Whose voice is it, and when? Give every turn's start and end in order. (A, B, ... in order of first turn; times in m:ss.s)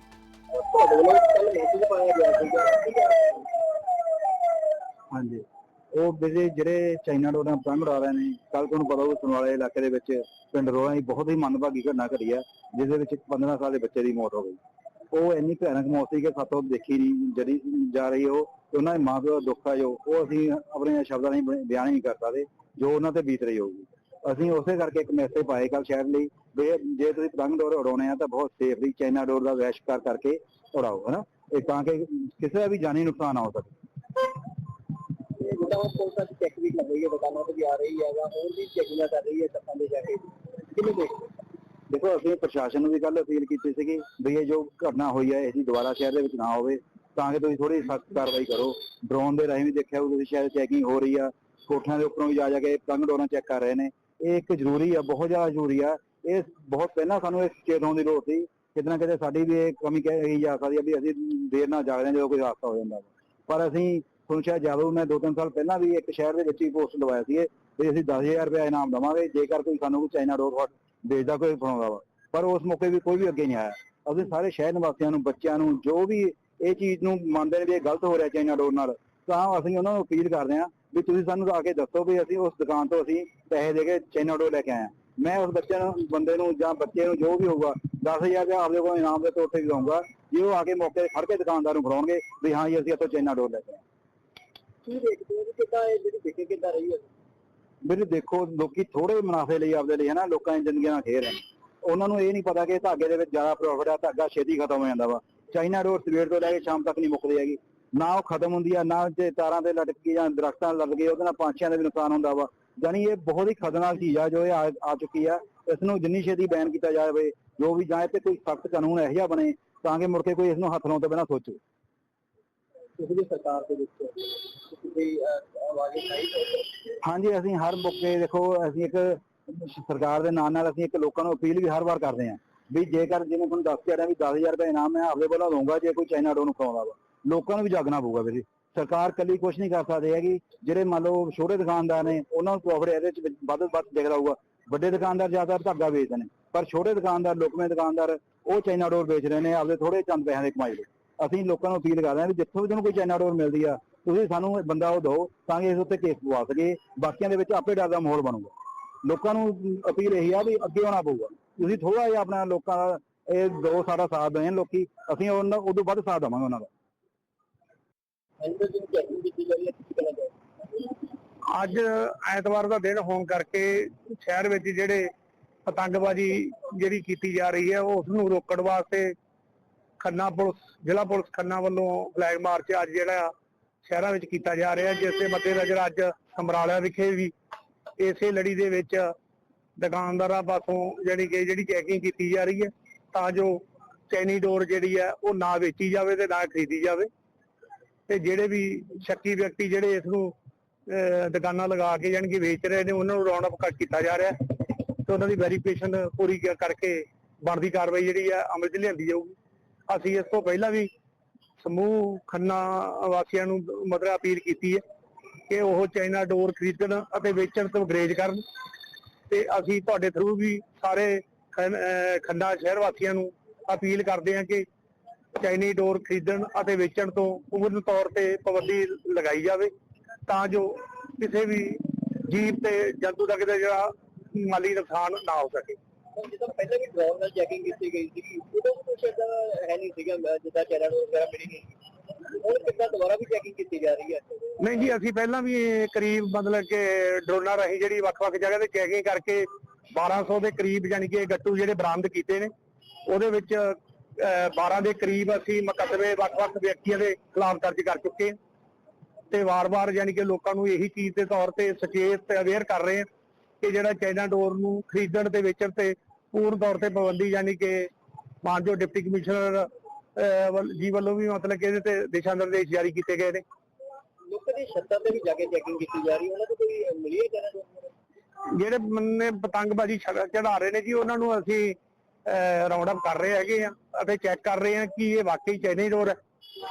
0:00.5-0:03.5 A
0:05.1-0:14.6 B
0:15.1-0:33.8 B
0:35.3-0:41.3 A
0:41.9-1:33.8 B
1:34.8-1:37.1 A
1:37.8-2:01.6 B
2:03.0-2:06.9 A
2:07.0-2:46.7 B
2:48.4-2:50.9 A
2:51.5-2:55.1 C
2:55.7-2:59.2 C
3:00.0-3:07.3 C
3:08.0-3:09.1 C
3:09.8-3:17.1 C
3:18.1-3:20.3 C
3:20.9-3:29.4 C
3:29.9-3:30.9 C
3:31.6-3:34.8 C
3:35.5-3:38.4 C
3:39.3-3:44.7 C
3:45.4-3:49.7 C
3:50.3-3:55.8 C
3:56.1-4:04.6 A
4:04.6-4:12.5 C
4:13.1-4:18.4 C
4:19.3-4:23.1 C
4:23.6-4:27.9 C
4:28.4-4:33.4 C
4:34.2-4:37.9 A
4:38.6-4:46.2 C